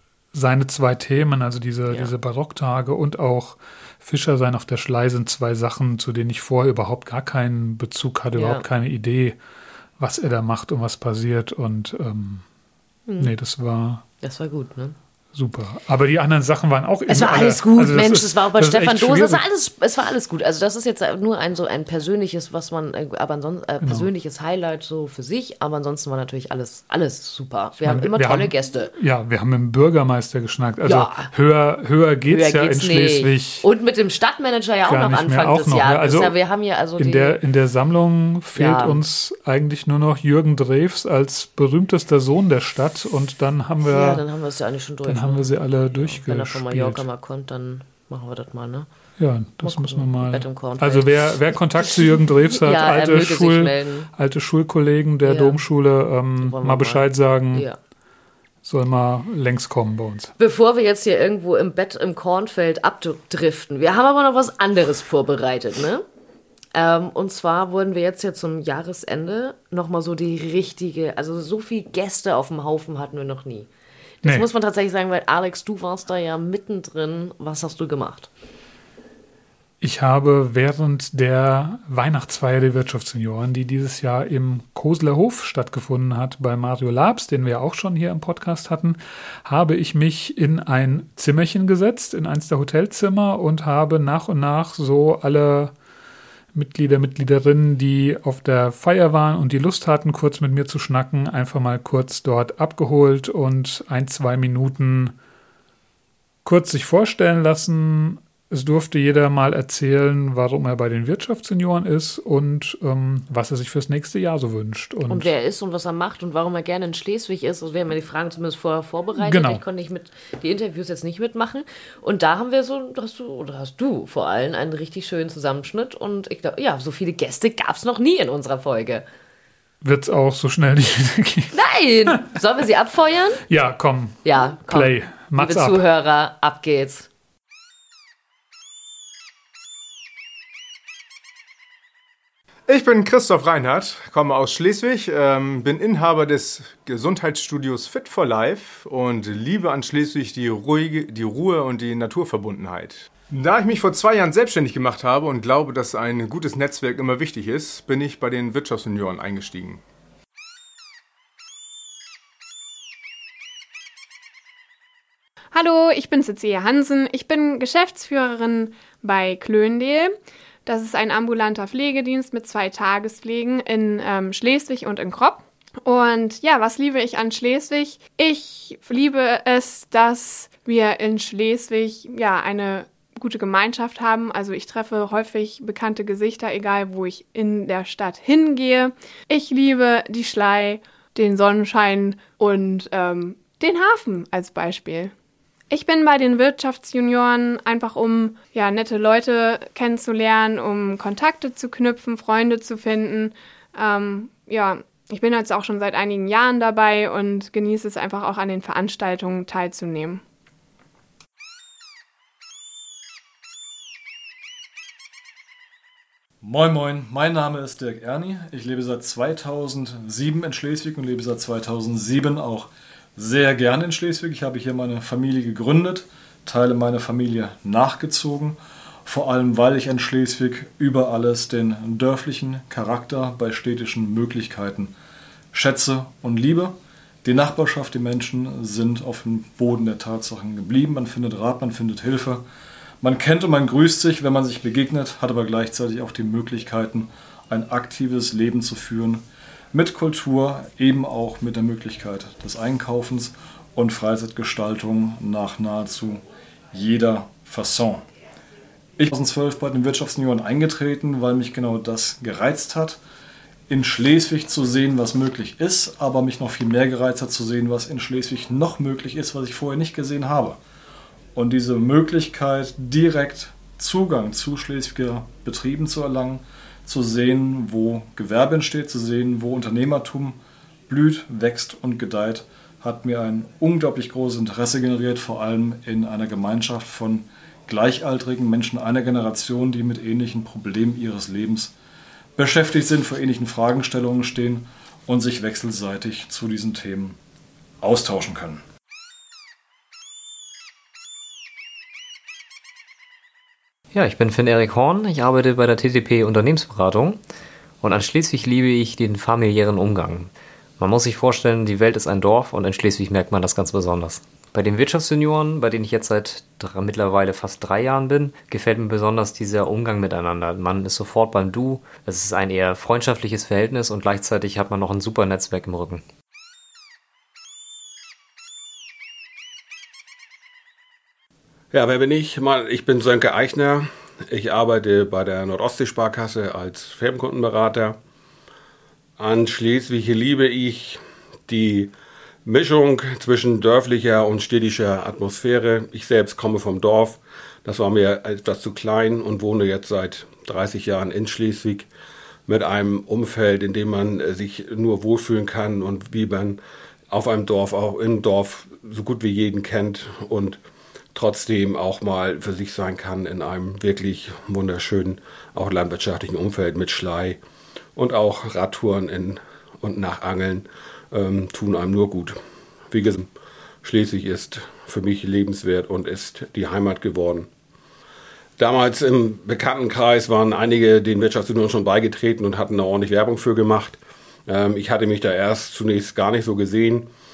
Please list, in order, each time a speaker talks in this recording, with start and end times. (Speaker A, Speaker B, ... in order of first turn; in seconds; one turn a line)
Speaker A: 0.3-9.4
Speaker B: 1.9-2.1
Speaker B: 8.3-8.7
Speaker A: 10.0-12.4
Speaker B: 13.1-13.3
Speaker A: 13.2-14.1
Speaker B: 14.2-15.0
Speaker A: 15.3-19.4
Speaker B: 17.1-28.9
Speaker A: 23.8-24.1
Speaker A: 27.8-33.6
Speaker B: 30.8-31.3
Speaker B: 32.3-37.4
Speaker A: 34.9-36.4
Speaker A: 37.0-44.2
Speaker B: 38.5-39.0
Speaker B: 43.8-45.5
Speaker A: 45.1-47.0
Speaker B: 46.0-48.9
Speaker A: 49.2-57.7
Speaker B: 49.6-54.1
Speaker B: 55.2-55.6
Speaker B: 56.4-57.8
Speaker A: 58.6-60.3
Speaker B: 60.4-66.0
Speaker B: 66.7-73.7
Speaker B: 74.2-78.3
Speaker A: 79.8-95.7
Speaker A: 96.5-105.2
Speaker A: 106.5-115.3
Speaker B: 115.1-129.1
Speaker A: 119.2-119.6
Speaker A: 129.8-131.6
Speaker B: 131.5-133.4
Speaker A: 133.5-135.8
Speaker B: 134.2-137.1
Speaker C: 142.7-159.8
Speaker D: 165.5-195.1
Speaker D: 195.7-210.2
Speaker E: 216.4-234.9
Speaker E: 235.5-242.4
Speaker E: 243.0-258.1
Speaker E: 259.0-263.0
Speaker E: 263.7-270.6
Speaker E: 271.4-280.4
Speaker E: 280.9-291.7
Speaker E: 292.4-297.2
Speaker E: 297.8-298.6
Speaker F: 303.9-307.2
Speaker F: 307.8-326.0
Speaker G: 331.7-338.0
Speaker G: 339.2-341.9
Speaker G: 342.4-351.9
Speaker G: 352.5-356.6
Speaker G: 357.1-360.6
Speaker G: 361.1-367.4
Speaker G: 368.0-372.4
Speaker G: 372.9-373.3
Speaker G: 373.8-377.5
Speaker G: 378.6-387.1